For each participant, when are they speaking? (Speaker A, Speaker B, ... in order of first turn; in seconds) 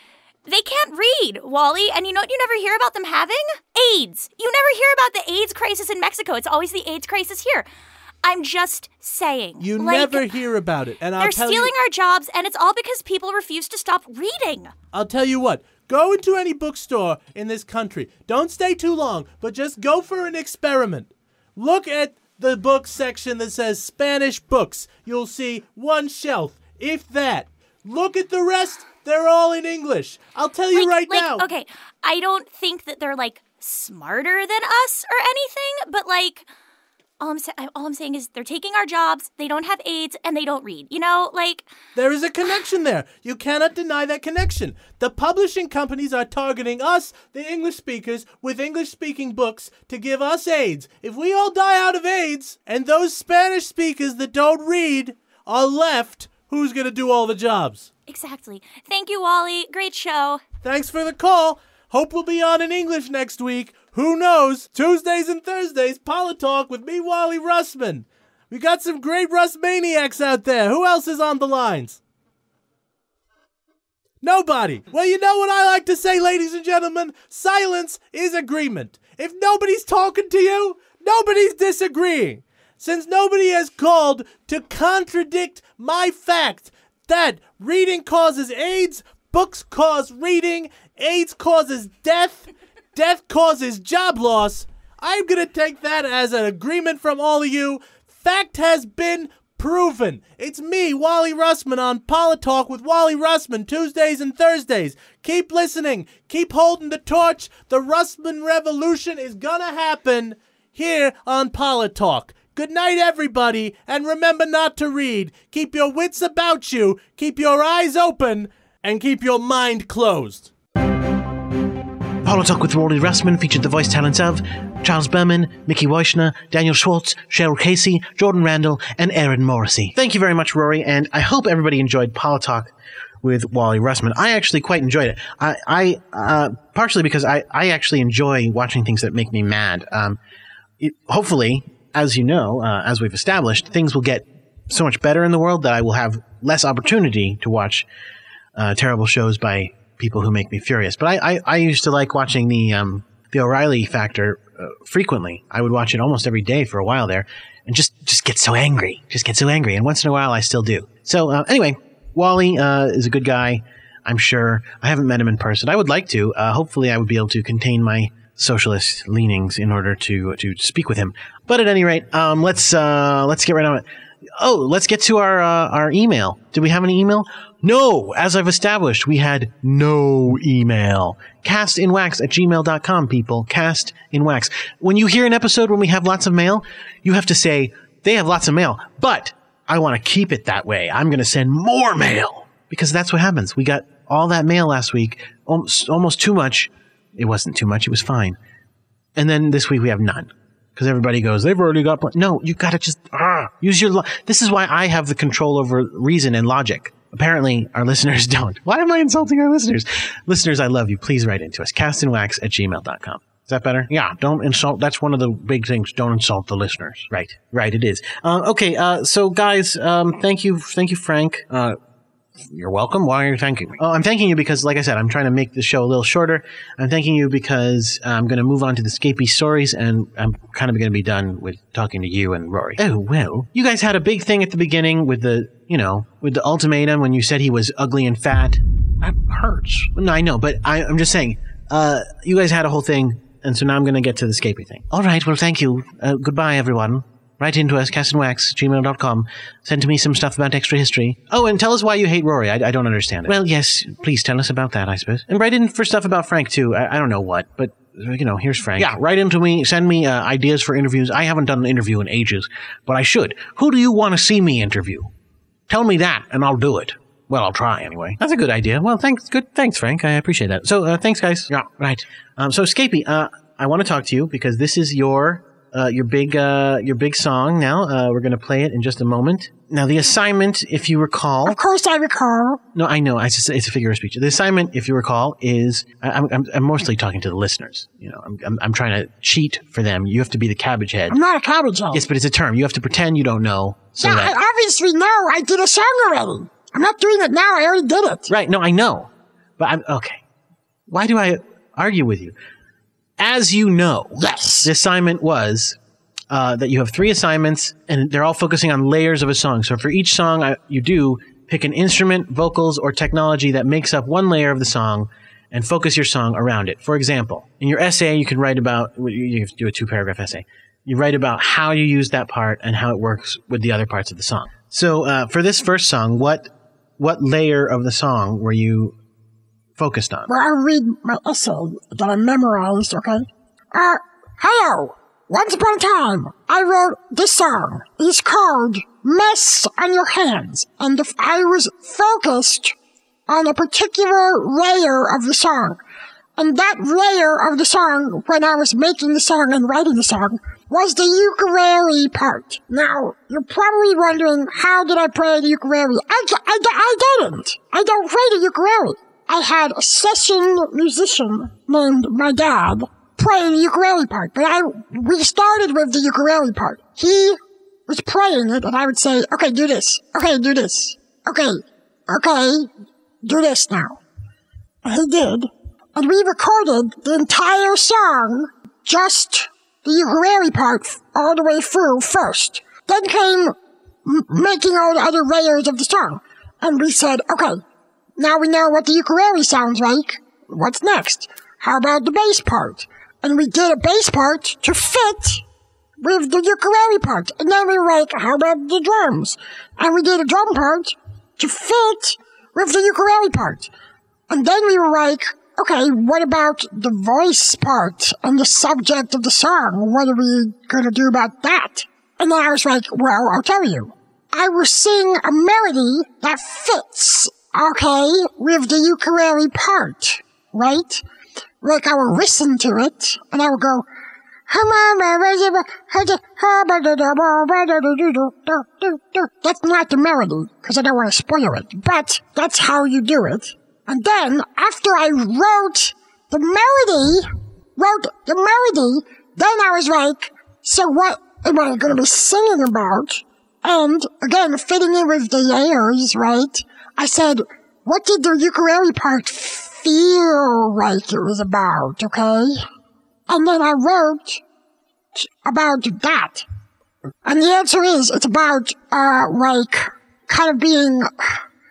Speaker A: 0.5-7.7, 8.2-10.3, 11.2-14.7, 30.7-36.5, 37.2-41.7, 58.1-60.4
Speaker B: 9.6-11.7, 14.9-31.5, 42.0-57.9, 60.6-72.0, 74.2-120.5
Speaker C: 122.2-140.2, 140.8-147.9, 148.6-173.8, 174.4-198.4, 199.2-221.8, 222.4-265.1, 265.7-281.6, 282.7-291.2, 291.9-294.4, 298.3-300.2, 300.9-302.4, 303.2-305.8, 306.3-328.9, 329.8-330.3
Speaker D: 281.4-282.6, 291.1-292.1, 294.0-298.3, 304.2-304.7, 330.3-342.8, 343.3-345.8, 346.4-372.7, 373.2-374.0, 374.8-383.6, 384.1-387.6, 388.2-395.4, 396.0-403.7, 404.3-421.0, 421.6-423.9, 424.5-452.6, 453.3-454.4, 455.2-456.4, 457.2-461.4